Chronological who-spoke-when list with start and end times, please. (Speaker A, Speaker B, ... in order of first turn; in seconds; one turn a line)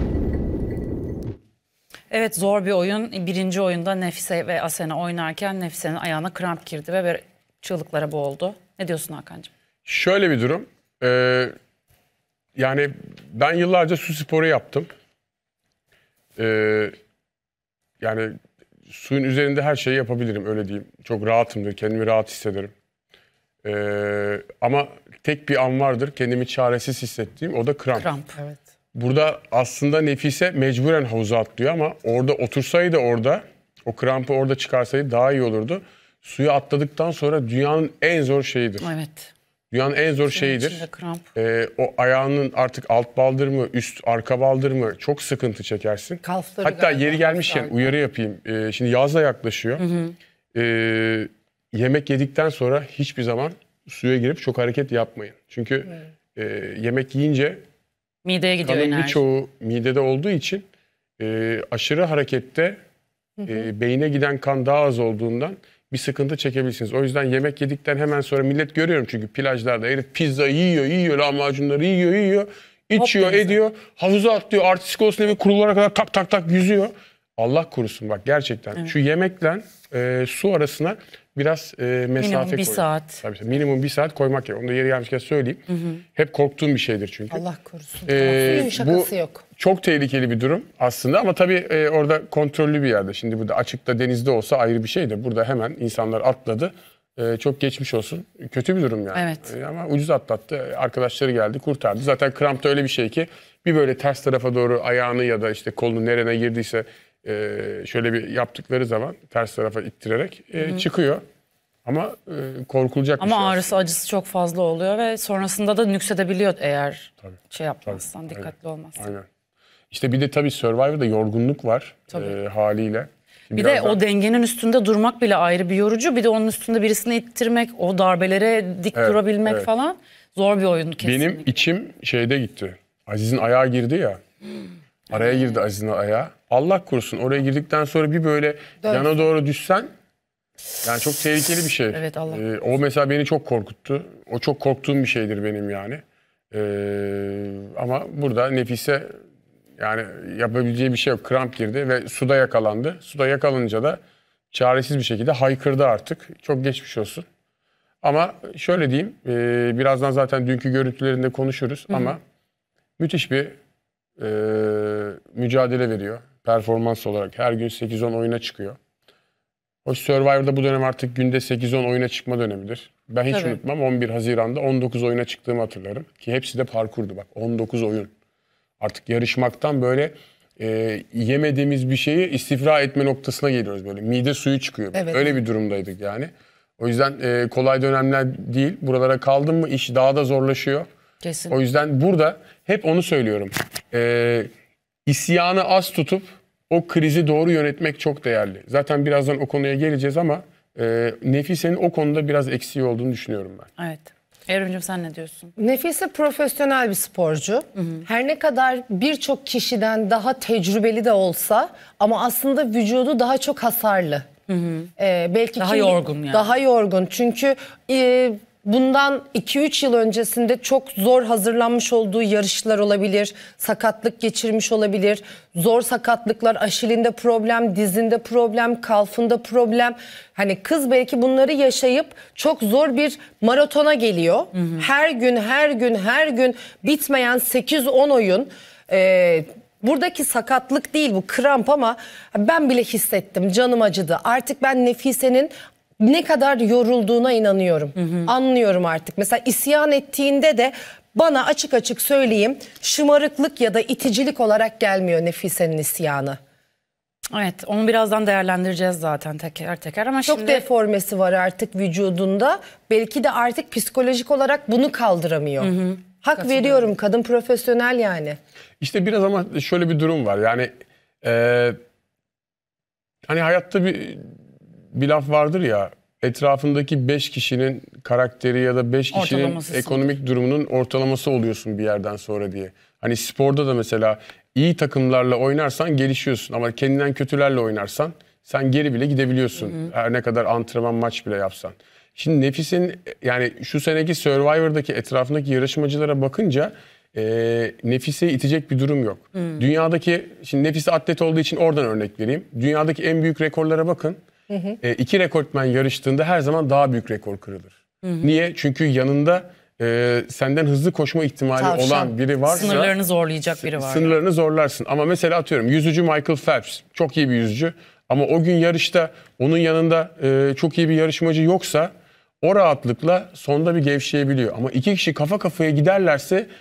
Speaker A: 2.1-9.5
Speaker B: 9.8-11.5
Speaker B: 12.6-14.9
Speaker B: 16.4-16.9
Speaker B: 18.0-18.3
Speaker B: 18.9-22.7
Speaker B: 23.6-28.1
Speaker A: 27.9-28.4
Speaker B: 28.9-38.9
Speaker A: 38.8-39.3
Speaker B: 39.7-49.8
Speaker A: 40.3-41.2
Speaker C: 46.2-47.9
Speaker A: 49.8-50.1
Speaker B: 50.5-57.6
Speaker A: 58.2-59.2
Speaker B: 58.6-60.6
Speaker B: 61.2-62.8
Speaker B: 63.4-87.4
Speaker A: 73.0-73.6
Speaker A: 82.2-83.2
Speaker C: 87.3-89.4
Speaker B: 88.1-111.2
Speaker A: 99.1-99.5
Speaker B: 111.8-113.8
Speaker A: 113.2-119.1
Speaker B: 117.9-119.3
Speaker B: 119.9-124.0
Speaker A: 123.5-131.5
Speaker B: 128.9-129.7
Speaker B: 131.0-134.2
Speaker B: 135.1-139.9
Speaker B: 140.8-149.1
Speaker A: 141.9-142.4
Speaker B: 149.8-154.0
Speaker B: 154.5-157.2
Speaker B: 158.0-162.2
Speaker B: 163.0-163.5
Speaker B: 164.2-168.8
Speaker B: 169.8-178.1
Speaker A: 173.3-173.6
Speaker B: 178.8-190.9
Speaker C: 184.9-185.4
Speaker A: 191.2-191.5
Speaker B: 191.5-194.5
Speaker B: 195.1-203.7
Speaker A: 203.8-205.5
Speaker C: 205.6-214.2
Speaker A: 207.8-208.0
Speaker A: 214.5-214.9
Speaker C: 215.0-256.4
Speaker A: 215.6-216.5
Speaker A: 234.5-234.8
Speaker A: 248.0-248.3
Speaker A: 257.3-260.6
Speaker C: 260.3-268.4
Speaker A: 265.6-266.9
Speaker B: 268.8-270.7
Speaker B: 271.2-271.8
Speaker B: 273.2-274.3
Speaker B: 274.9-304.2
Speaker A: 279.1-280.1
Speaker C: 304.5-304.8
Speaker B: 304.8-312.9
Speaker C: 311.6-312.2
Speaker A: 312.5-314.2
Speaker B: 313.6-326.5